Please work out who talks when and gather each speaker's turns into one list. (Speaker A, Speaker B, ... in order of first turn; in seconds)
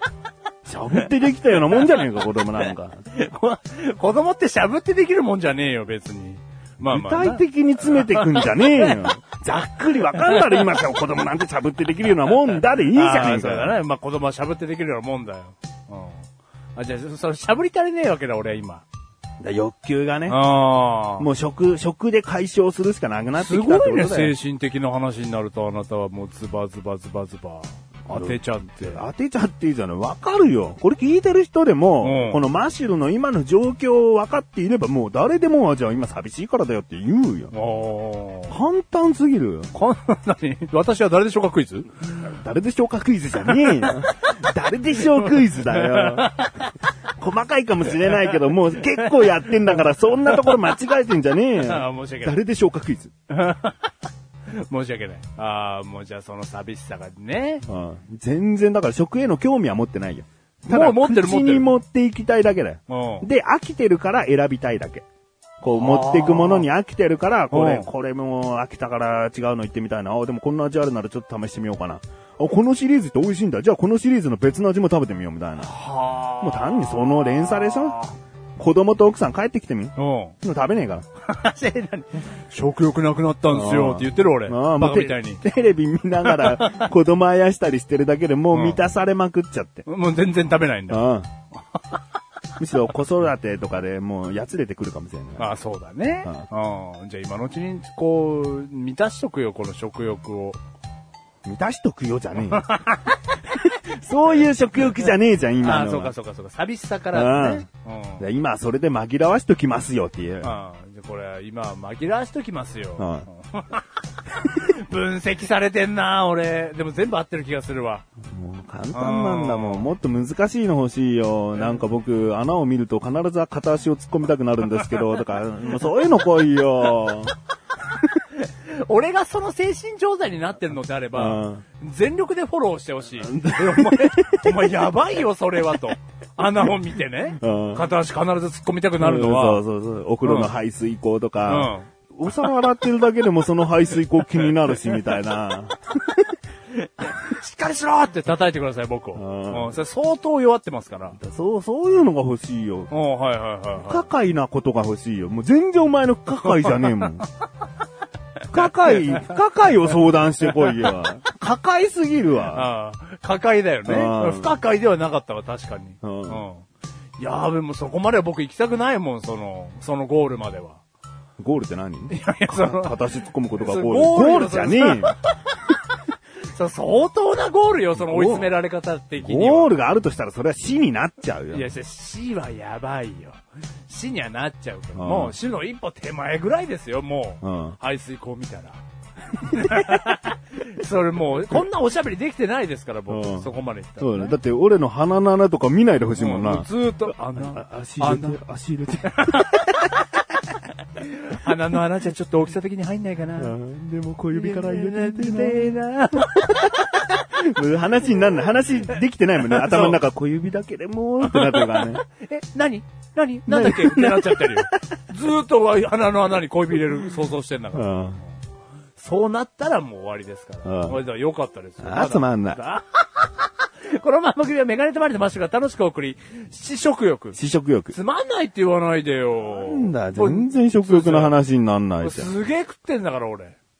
Speaker A: 0.7-3.0, 6.8-13.8, 19.4-20.4, 21.2-24.3, 28.1-37.5, 38.5-39.7, 42.0-46.4, 47.2-53.1, 57.6-65.0, 65.6-75.7, 76.4-78.0, 78.6-81.0, 83.5-89.8, 90.9-91.3, 92.6-95.5, 101.4-102.7, 103.5-106.1, 107.1-107.7, 108.2-110.5, 113.0-113.3, 118.3-127.3, 131.1-131.6, 133.2-134.9, 137.4-137.9, 139.0-146.3, 149.2-149.8, 151.2-152.9, 153.8-157.2, 158.5-162.7, 163.8-164.6, 166.0-166.4, 171.4-175.2, 177.9-178.5, 179.2-181.7, 184.9-185.3, 187.4-187.8, 189.5-190.1, 193.1-199.8, 203.4-212.0, 213.5-214.8, 217.7-218.2, 220.7-221.0, 221.8-222.6, 227.3-227.9, 229.4-232.3
Speaker B: 1.0-9.1, 10.1-10.8, 12.9-18.8, 20.3-21.3, 23.4-29.1, 32.0-32.4, 37.5-38.5, 39.7-42.0, 43.5-43.9, 45.0-46.7, 48.9-50.6, 51.6-52.4, 53.3-53.9, 54.5-57.6, 60.7-61.7, 62.9-63.3, 65.7-66.7, 67.5-67.9, 75.6-78.2, 80.0-80.3, 81.2-85.4, 86.2-86.9, 88.5-88.8, 89.8-91.1, 91.7-92.0, 95.4-100.6, 102.5-103.2, 105.6-108.2, 110.4-118.1, 118.9-119.9, 128.3-139.6, 140.2-140.5, 141.5-141.9, 146.8-151.2, 152.9-154.1, 156.6-156.8, 158.7-159.0, 160.6-160.9, 162.5-166.7, 167.2-170.8, 172.1-173.1, 173.6-175.3, 176.4-179.8, 181.5-188.8, 189.4-194.3, 196.2-198.4, 199.1-203.5, 204.3-207.0, 209.4-210.0, 211.2-218.3, 219.0-227.4, 227.9-231.3, 232.0-233.6